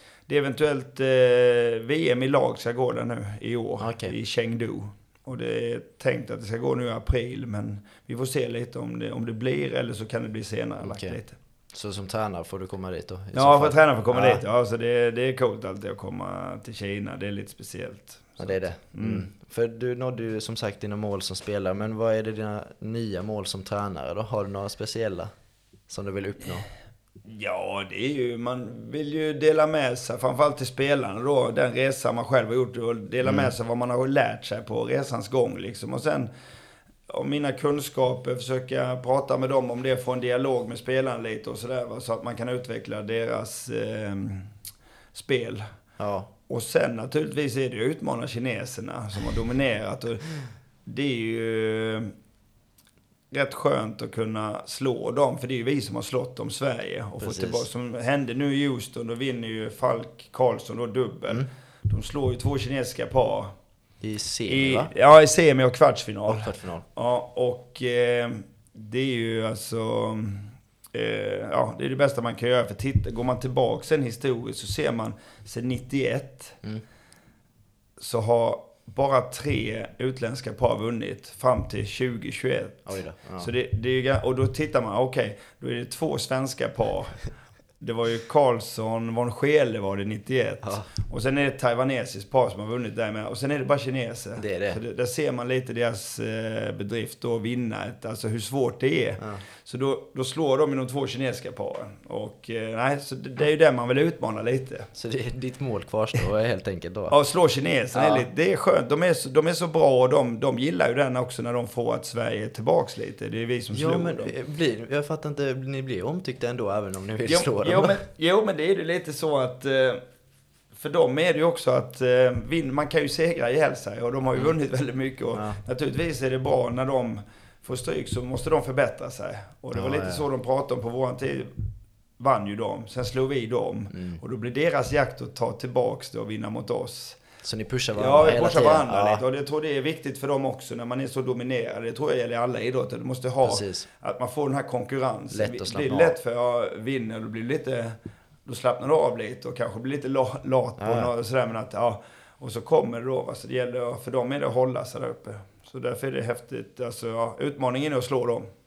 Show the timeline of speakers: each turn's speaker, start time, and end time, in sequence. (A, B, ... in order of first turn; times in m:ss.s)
0:00.3-0:11.4 A
0:03.8-0:04.1 B
0:10.8-0:11.2 B
0:11.7-0:14.4 B
0:13.3-0:19.3 A
0:18.4-0:25.3 B
0:25.9-0:26.7 B
0:27.2-0:36.3 A
0:37.1-0:44.5 A
0:45.1-0:45.6 A
0:46.0-0:46.3 B
0:46.5-0:50.3 A
0:50.8-0:52.1 A
0:53.3-1:03.5 A
0:57.2-0:57.6 B
1:04.0-1:04.9 B
1:04.5-1:16.6 A
1:06.3-1:06.8 B
1:18.0-1:27.2 A
1:22.8-1:23.5 B
1:27.8-1:44.9 A
1:30.6-1:30.9 B
1:34.4-1:34.8 B
1:44.9-1:47.1 B
1:47.1-1:54.3 A
1:47.9-1:48.3 B
1:53.7-1:58.0 B
1:57.2-2:00.0 A
2:00.7-2:11.6 A
2:05.3-2:05.6 B
2:09.7-2:10.2 B
2:12.2-2:17.2 A
2:13.9-2:14.2 B
2:17.4-2:19.2 B
2:17.9-2:38.5 A
2:23.4-2:23.9 B
2:25.3-2:26.1 B
2:30.8-2:31.1 B